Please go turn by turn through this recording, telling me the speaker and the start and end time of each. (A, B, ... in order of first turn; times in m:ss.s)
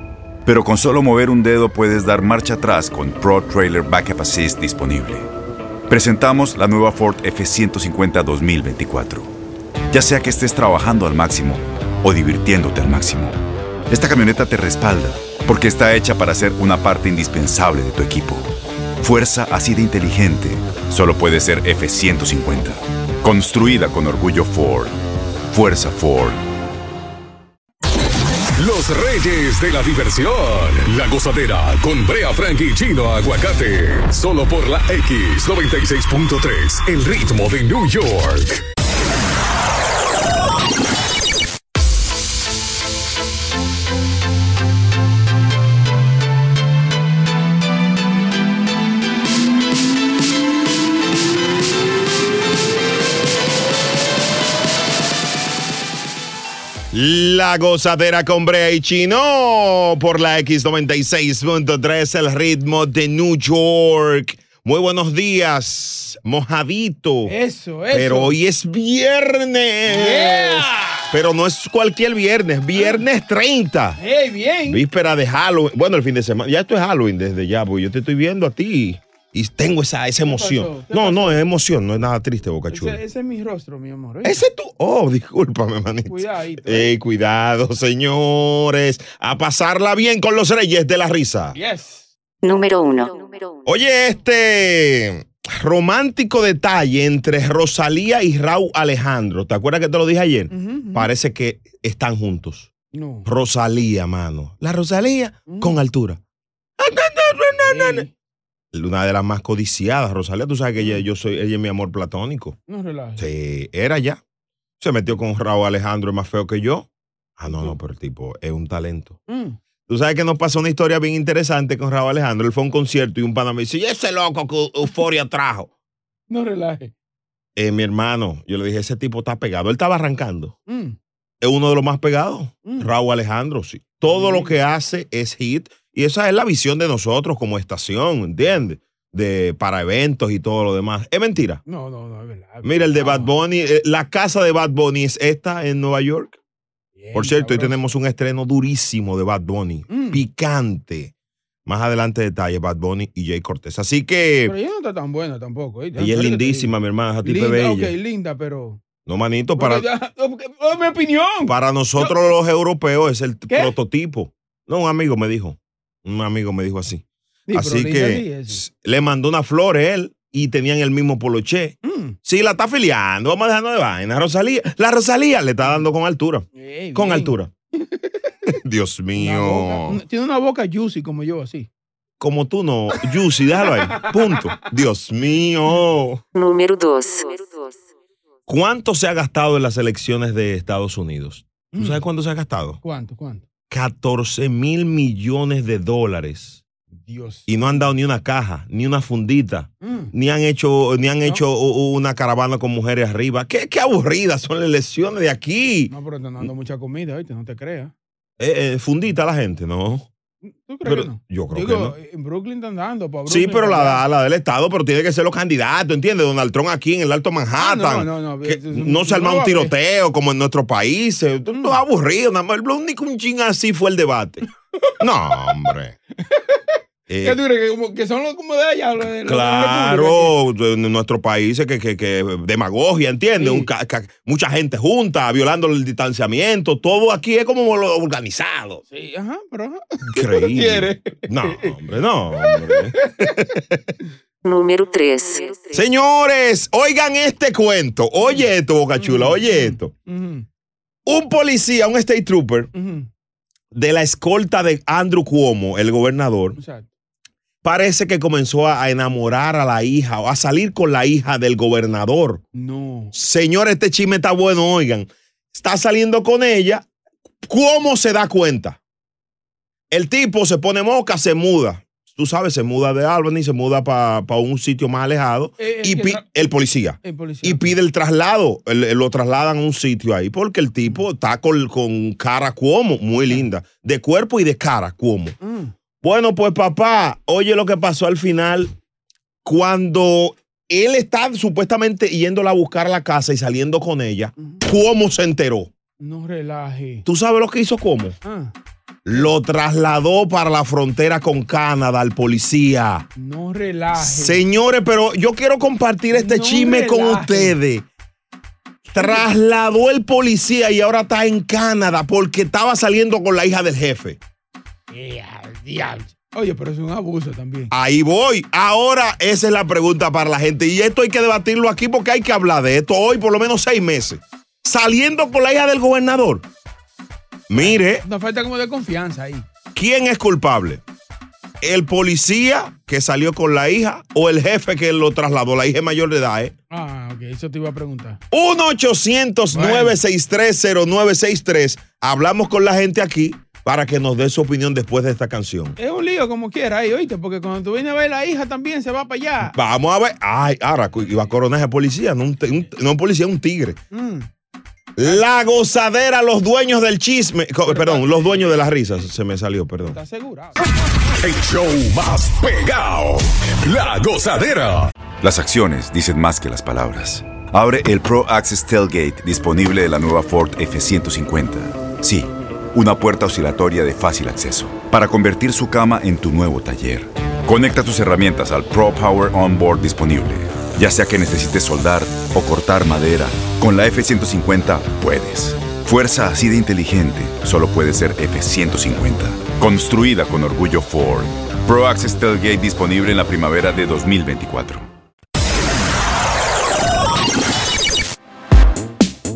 0:00.4-0:05.3 A
0:05.9-0:09.3 A
0:09.9-0:13.4 A
0:13.9-0:25.0 A
0:25.5-0:26.4 A
0:28.6-0:38.6 B
0:56.9-1:07.3 C
1:07.2-1:08.3 D
1:07.9-1:14.0 C
1:09.9-1:11.1 D
1:12.7-1:13.0 D
1:14.0-1:14.8 D
1:14.7-1:23.0 C
1:20.2-1:21.4 D
1:22.7-1:24.4 D
1:24.2-1:31.6 C
1:26.1-1:26.9 D
1:31.5-1:32.1 D
1:32.4-1:33.6 E
1:33.6-1:42.7 C
1:40.5-1:41.1 D
1:42.9-1:43.3 D
1:43.2-1:46.2 C
1:45.5-1:45.8 D
1:46.8-1:48.1 C
1:47.6-1:48.1 D
1:48.7-1:52.6 C
1:52.7-1:53.2 D
1:53.2-1:54.2 C
1:54.8-1:59.2 C
1:57.5-1:57.7 D
1:59.3-1:59.6 D
1:59.9-2:05.7 C
2:06.3-2:06.9 D
2:07.6-2:10.5 C
2:10.7-2:11.0 D
2:11.4-2:21.6 C
2:14.1-2:14.5 D
2:21.7-2:23.3 D
2:22.6-2:26.4 C
2:27.0-2:27.8 D
2:27.1-2:31.1 C
2:29.9-2:30.2 D
2:31.6-2:34.5 C
2:34.5-2:36.7 D
2:36.0-2:37.9 C
2:37.2-2:38.8 D
2:39.0-2:39.8 C
2:39.6-2:42.1 D
2:41.4-2:57.5 C
2:43.5-2:43.7 D
2:47.5-2:48.6 D
2:51.8-2:52.2 D
2:56.5-2:58.0 D
2:58.5-3:00.0 C
2:59.2-3:01.7 D
3:02.2-3:06.2 C
3:03.8-3:04.4 D
3:06.3-3:07.8 E
3:08.5-3:12.8 C
3:11.7-3:12.0 D
3:12.8-3:13.4 D
3:13.7-3:16.6 C
3:17.0-3:17.9 D
3:17.5-3:26.4 C
3:19.8-3:20.1 D
3:25.9-3:27.9 D
3:28.4-3:30.1 C
3:30.4-3:34.0 D
3:30.8-3:31.9 C
3:33.3-3:44.4 C
3:37.6-3:39.7 D
3:41.5-3:41.8 D
3:45.0-3:45.9 C
3:46.2-3:50.3 D
3:47.1-3:47.4 C
3:49.2-3:58.8 C
3:53.4-3:53.7 D
3:58.9-4:01.8 D
4:00.1-4:03.8 C
4:02.4-4:03.4 D
4:04.4-4:05.7 E
4:05.7-4:09.9 C
4:09.0-4:10.4 D
4:11.0-4:12.7 C
4:12.7-4:13.1 D
4:13.7-4:16.6 C
4:16.6-4:16.8 D
4:17.6-4:22.4 C
4:22.5-4:23.1 D
4:23.1-4:26.8 C
4:27.4-4:28.8 C
4:29.9-4:45.4 C
4:35.6-4:36.5 D
4:37.0-4:37.8 D
4:45.4-4:45.7 D
4:46.0-4:48.7 C
4:49.4-4:55.7 C
4:56.0-4:57.0 D
4:57.0-4:58.2 C
4:58.2-4:58.5 D
4:59.0-5:03.1 C
5:03.2-5:04.4 D
5:04.0-5:07.8 C
5:06.1-5:07.6 D
5:08.9-5:14.2 C
5:09.0-5:09.2 D
5:14.9-5:17.7 D
5:17.7-5:26.4 C
5:27.5-5:28.0 C
5:27.5-5:29.4 D
5:29.7-5:30.8 C
5:31.6-5:36.5 C
5:36.7-5:38.2 D
5:38.3-5:45.8 C
5:39.5-5:39.9 D
5:45.8-5:49.5 D
5:49.5-5:53.8 C
5:53.9-5:54.3 D
5:55.0-6:00.0 C
5:57.6-5:58.5 D
5:59.9-6:00.7 D
6:01.2-6:04.9 B
6:05.2-6:34.9 A